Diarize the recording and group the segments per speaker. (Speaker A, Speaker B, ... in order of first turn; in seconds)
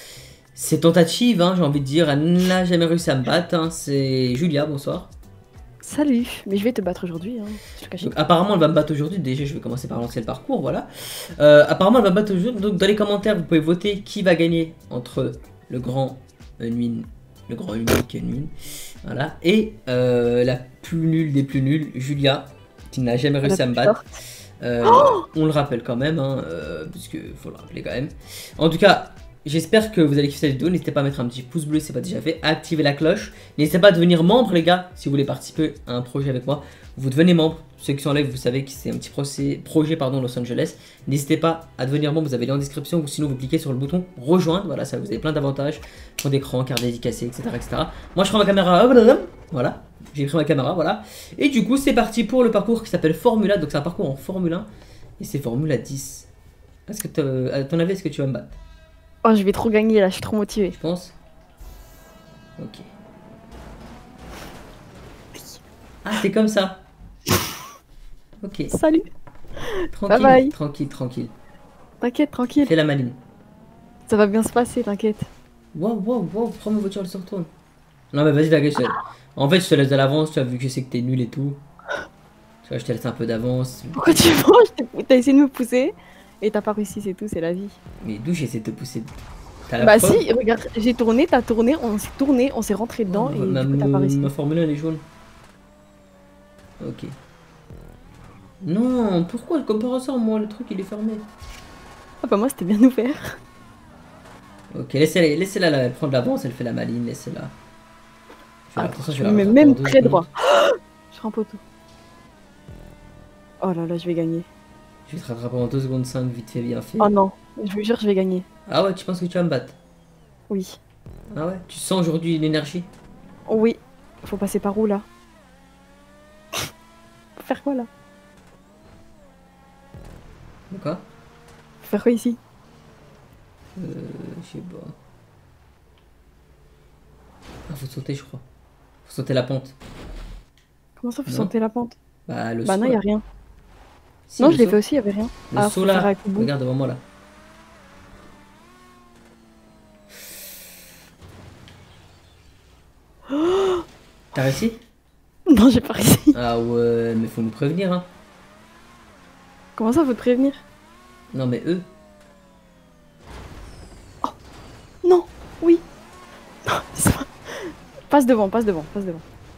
Speaker A: 0.5-5.1, 8.0-10.9, 11.4-18.5, 19.0-24.0, 24.6-56.3, 56.9-58.6, 60.8-61.1, 62.6-62.9, 66.0-66.8, 68.4-68.7, 69.9-71.3, 72.6-73.2, 75.7-77.5, 78.1-81.6, 82.6-84.3, 88.0-89.1, 89.7-90.2, 93.1-95.0, 96.8-97.1, 98.6-101.2, 104.7-107.5, 108.7-110.2, 115.1-117.1, 118.7-119.8, 121.3-122.9, 130.7-131.1, 133.8-134.9, 137.7-138.4, 139.0-139.8, 141.3-141.5, 142.3-143.0, 144.3-144.8, 145.5-147.0, 154.3-154.8, 156.3-158.1, 161.3-161.9
Speaker B: 5.8-8.1, 23.4-24.1, 24.9-25.2, 59.2-60.8, 65.3-65.6, 68.7-69.0, 69.8-70.5, 72.0-72.7, 74.1-75.3, 84.0-87.8, 89.8-94.3, 102.2-103.4, 108.8-111.6, 113.6-114.5, 117.0-118.5, 120.5-120.8, 123.5-125.0, 127.4-127.9, 131.8-132.4, 141.0-141.9, 142.6-143.2, 144.4-146.5, 153.3-153.8, 155.5-156.3, 159.8-160.6, 165.0-165.8, 166.6-169.2